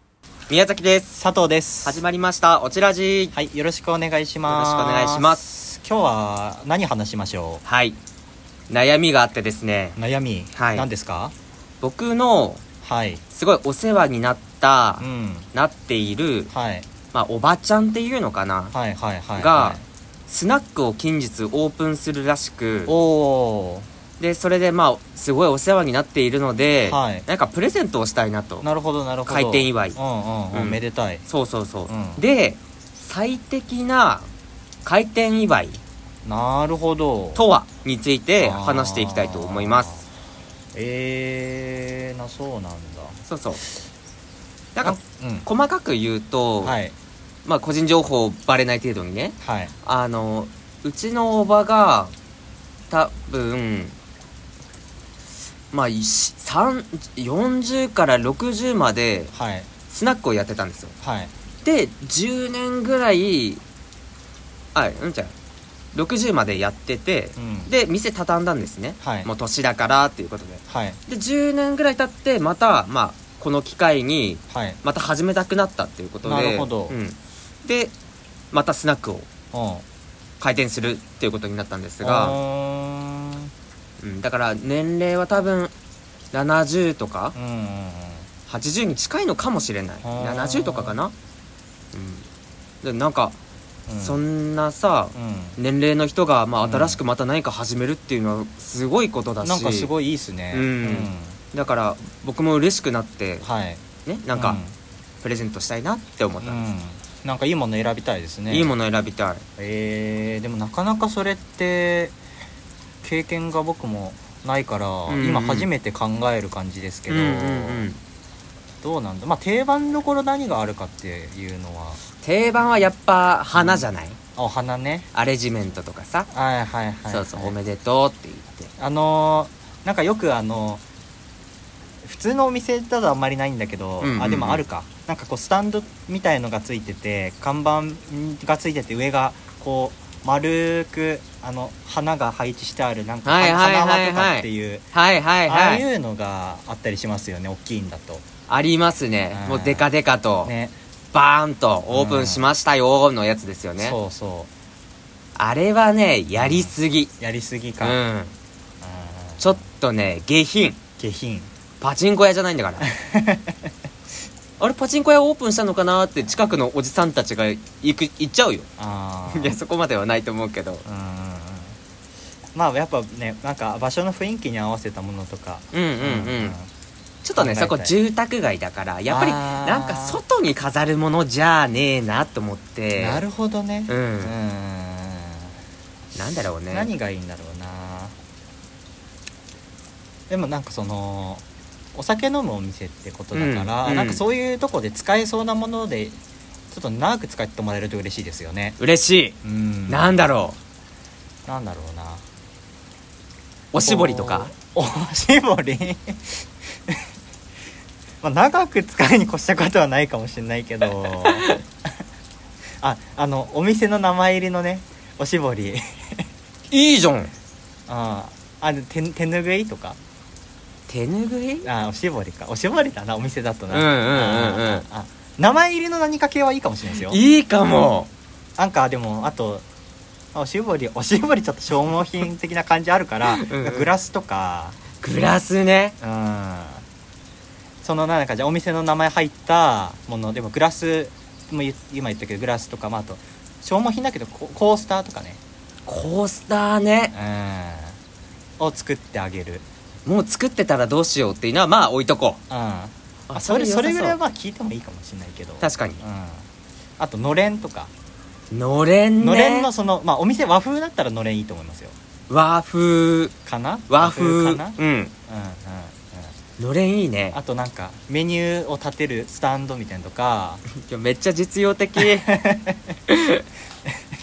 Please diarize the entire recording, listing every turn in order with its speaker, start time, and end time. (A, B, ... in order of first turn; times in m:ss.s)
0:00.5-0:01.2 A
0:01.1-0:02.0 B
0:01.8-0:03.3 A
0:03.3-0:07.6 B
0:04.4-0:05.4 A
0:07.6-0:08.0 A
0:08.7-0:10.0 A
0:10.0-0:11.3 B
0:10.5-0:10.9 A
0:11.8-0:12.6 A
0:12.8-0:13.2 B
0:13.3-0:16.5 A
0:15.0-0:15.5 B
0:16.5-0:16.9 B
0:17.1-0:18.7 A
0:18.7-0:19.8 B
0:19.4-0:22.9 A
0:22.9-0:23.9 B
0:24.2-0:28.6 A
0:26.8-0:27.2 B
0:28.6-0:31.2 B
0:29.3-0:30.0 A
0:30.5-0:34.3 A
0:31.9-0:32.2 B
0:34.8-0:35.8 A
0:36.2-0:37.4 B
0:37.3-0:39.9 A
0:38.4-0:40.0 B
0:40.7-0:43.2 B
0:43.2-0:43.6 A
0:44.7-0:46.8 A
0:44.8-0:45.5 B
0:46.6-0:46.9 B
0:47.4-0:52.1 A
0:49.4-0:49.7 B
0:52.9-0:54.0 A
0:55.7-0:59.3 A
0:59.3-0:59.7 B
0:59.9-1:00.9 A
1:01.0-1:01.3 B
1:01.6-1:03.6 A
1:04.7-1:05.3 A
1:05.9-1:17.9 A
1:07.4-1:07.7 B
1:09.0-1:09.3 B
1:10.7-1:11.0 B
1:14.5-1:14.8 B
1:16.2-1:17.0 B
1:18.5-1:19.3 A
1:19.5-1:19.8 B
1:20.4-1:22.4 A
1:22.0-1:23.5 B
1:24.0-1:25.7 A
1:26.3-1:27.3 A
1:27.3-1:28.3 B
1:28.5-1:31.1 A
1:30.0-1:31.0 B
1:31.9-1:32.2 A
1:32.8-1:33.4 A
1:33.9-1:34.2 B
1:34.0-1:39.9 A
1:35.1-1:35.6 B
1:36.6-1:37.0 B
1:39.4-1:41.4 B
1:40.5-1:43.4 A
1:43.4-1:43.8 B
1:44.0-1:44.6 A
1:44.3-1:44.7 B
1:45.2-1:46.6 A
1:46.4-1:48.7 B
1:48.5-1:49.4 A
1:49.6-1:52.2 B
1:53.0-1:57.9 B
1:55.1-1:55.7 A
1:57.1-1:58.0 A
1:58.8-2:02.0 B
2:02.2-2:04.2 A
2:03.5-2:05.1 B
2:05.1-2:06.3 A
2:06.3-2:07.5 B
2:07.1-2:08.7 A
2:08.8-2:10.8 B
2:12.0-2:24.8 B
2:14.0-2:14.6 A
2:23.2-2:25.8 A
2:25.5-2:28.2 B
2:28.5-2:30.5 A
2:29.3-2:29.9 B
2:30.4-2:30.7 B
2:31.1-2:34.0 A
2:31.9-2:32.5 B
2:33.8-2:34.5 B
2:35.4-2:37.1 A
2:36.4-2:38.0 B
2:37.8-2:38.3 A
2:38.8-2:39.6 B
2:39.4-2:40.8 A
2:41.0-2:41.5 B
2:41.8-2:42.8 A
2:42.8-2:43.6 B
2:44.6-2:48.7 A
2:48.8-2:49.6 B
2:49.3-2:50.8 A
2:50.8-2:51.8 B
2:52.5-2:56.7 B
2:55.7-2:56.6 A
2:57.2-3:03.2 A
2:57.4-2:58.0 B
2:59.1-3:00.2 B
3:03.0-3:05.6 B
3:03.9-3:04.3 A
3:06.1-3:06.9 A
3:06.7-3:08.1 B
3:10.3-3:16.2 B
3:13.3-3:14.2 A
3:16.7-3:18.8 B
3:18.8-3:19.4 A
3:19.4-3:20.2 B
3:19.9-3:20.6 A
3:21.5-3:22.2 B
3:23.7-3:24.5 A
3:23.8-3:27.0 B
3:28.2-3:31.5 B
3:31.0-3:31.6 A
3:32.8-3:36.2 B
3:36.7-3:37.3 A
3:37.9-3:40.0 B
3:40.9-3:41.7 A
3:41.6-3:47.2 B
3:43.7-3:44.8 A
3:46.9-3:48.1 A
3:48.6-3:49.6 B
3:50.3-3:54.8 B
3:53.2-3:53.9 A
3:55.0-3:56.0 A
3:56.0-3:56.8 B
3:57.8-4:05.4 B
4:05.8-4:07.1 A
4:07.1-4:08.0 B
4:08.6-4:09.6 B
4:10.0-4:12.4 A
4:12.5-4:16.4 B
4:13.3-4:14.2 A
4:15.6-4:16.0 A
4:17.0-4:17.9 B
4:18.5-4:19.7 A
4:19.2-4:21.9 B
4:22.3-4:23.3 A
4:23.4-4:26.3 B
4:23.9-4:25.1 A
4:26.6-4:27.4 A
4:27.3-4:30.6 B
4:30.8-4:32.3 A
4:32.1-4:32.9 B
4:33.1-4:33.4 A